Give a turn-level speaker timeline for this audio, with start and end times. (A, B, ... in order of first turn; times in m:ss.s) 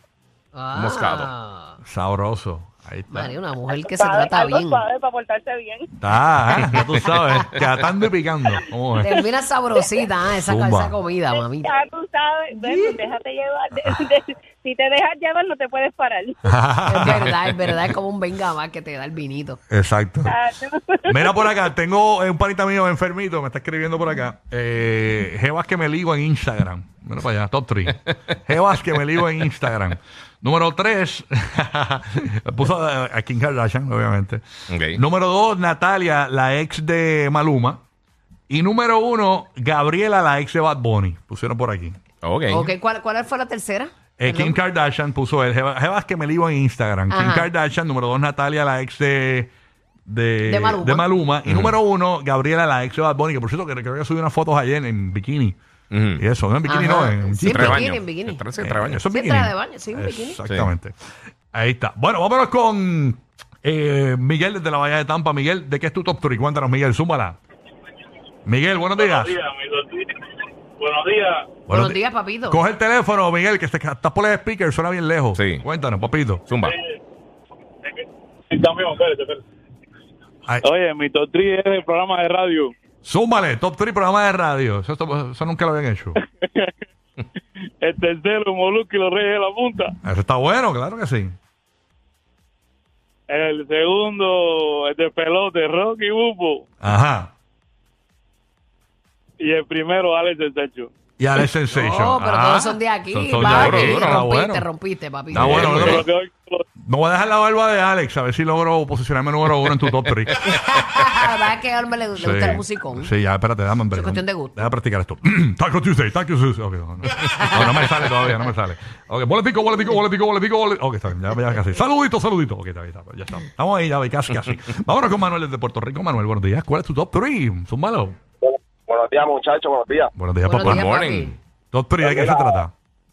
0:00.5-0:01.8 A
0:00.7-0:01.3 B
0:01.8-0:03.3 C
0:03.1-0:04.8 A
0:03.7-0:05.9 D
0:06.0-0:09.2 C
0:09.0-0:11.8 A
0:10.4-0:11.0 C
0:11.4-0:16.5 D
0:12.5-0:13.0 A
0:16.5-0:17.3 C
0:16.8-0:19.6 A
0:19.7-0:20.3 C
0:20.2-0:21.5 D
0:21.1-0:37.8 C
0:34.7-0:35.0 B
0:38.5-0:42.0 C
0:42.2-0:42.7 B
0:42.5-0:44.6 A
0:44.2-0:49.5 C
0:47.1-0:47.5 A
0:50.1-0:55.6 C
0:50.4-0:51.1 A
0:51.4-0:51.7 B
0:55.9-0:56.2 B
0:56.2-0:57.9 C
0:56.6-0:58.4 A
0:57.5-0:59.0 B
0:58.6-1:00.9 C
0:59.1-1:00.4 A
1:01.5-1:07.4 C
1:08.4-1:09.4 C
1:09.0-1:10.1 E
1:10.8-1:11.5 E
1:11.7-1:16.4 C
1:11.7-1:12.6 A
1:15.3-1:15.6 B
1:16.5-1:16.7 B
1:18.0-1:19.4 E
1:20.6-1:22.7 E
1:23.0-1:26.2 C
1:26.4-1:26.7 E
1:27.8-1:29.9 E
1:30.0-1:31.4 C
1:33.3-1:36.6 E
1:36.8-1:37.3 C
1:39.4-1:40.9 E
1:41.2-1:44.7 C
1:41.7-1:45.7 A
1:43.4-1:44.2 B
1:45.3-1:46.0 C
1:45.3-1:46.0 B
1:45.6-1:46.6 E
1:46.8-1:50.4 C
1:50.4-1:53.1 A
1:52.2-2:08.2 C
1:53.9-1:54.7 A
1:57.4-1:58.0 A
2:08.4-2:10.1 F
2:10.2-2:10.9 C
2:10.4-2:11.3 A
2:10.6-2:11.3 B
2:11.7-2:12.7 C
2:12.0-2:12.6 F